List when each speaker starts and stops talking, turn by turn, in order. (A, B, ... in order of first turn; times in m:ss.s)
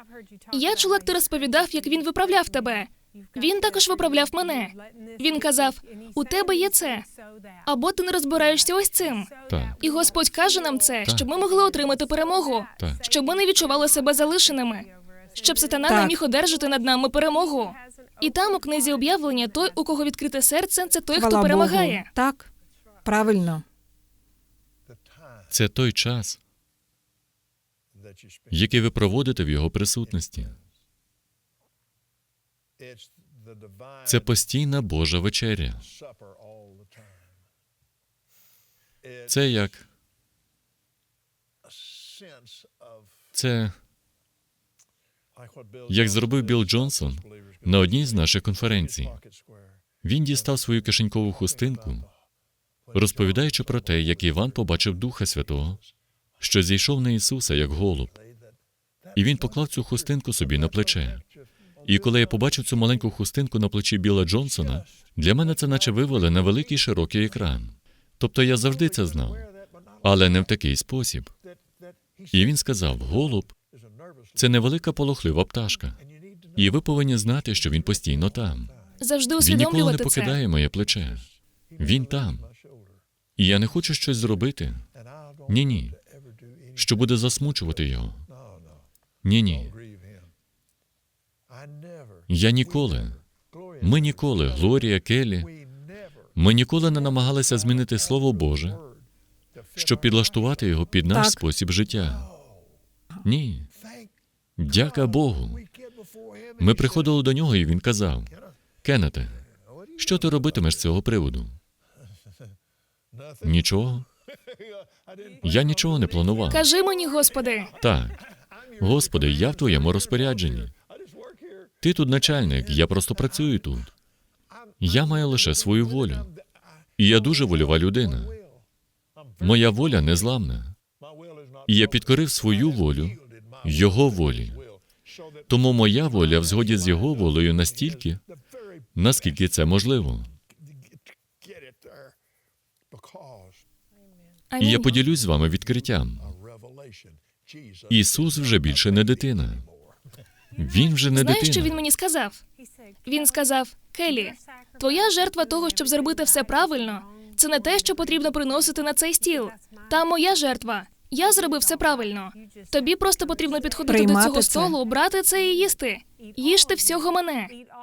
0:00.5-0:07.1 A
0:07.6-0:22.1 A
0:09.5-0:09.8 B
0:15.9-0:16.1 C
0:21.1-0:22.5 C
0:23.0-0:23.6 C
0:25.5-0:26.4 B
0:28.5-0:30.5 B
0:34.0-0:35.9 B
0:39.3-0:39.9 B
0:43.3-0:43.8 B
0:45.9-0:49.2 B
0:50.0-0:52.1 B
0:52.9-0:55.8 B
0:56.4-0:58.1 B
0:59.1-1:01.2 B
1:01.8-1:09.5 B
1:10.0-1:11.3 B
1:12.3-1:13.5 B
1:14.4-1:16.0 B
1:16.6-1:18.7 B
1:19.0-1:20.4 A
1:19.4-1:21.2 B
1:21.8-1:22.5 B
1:23.4-1:24.8 B
1:25.5-1:26.0 B
1:26.8-1:28.2 B
1:29.2-1:29.7 B
1:32.3-1:33.2 B
1:33.8-1:35.5 B
1:36.4-1:38.8 B
1:39.8-1:42.3 B
1:41.1-1:41.4 C
1:43.2-1:43.7 B
1:44.6-1:45.6 B
1:46.6-1:48.3 B
1:48.8-1:49.4 B
1:50.0-1:51.5 B
1:53.4-1:54.0 B
1:55.4-1:56.6 B
1:56.5-1:57.7 A
1:57.8-1:58.2 B
1:58.8-2:00.7 B
2:01.8-2:03.9 B
2:04.8-2:06.3 B
2:07.0-2:08.4 B
2:09.4-2:10.8 B
2:11.7-2:14.6 B
2:15.5-2:18.2 B
2:18.9-2:20.3 B
2:24.5-2:24.9 A
2:24.6-2:26.3 B
2:27.9-2:29.6 B
2:30.6-2:31.8 B
2:31.1-2:32.4 A
2:33.0-2:47.5 A
2:43.9-2:44.8 C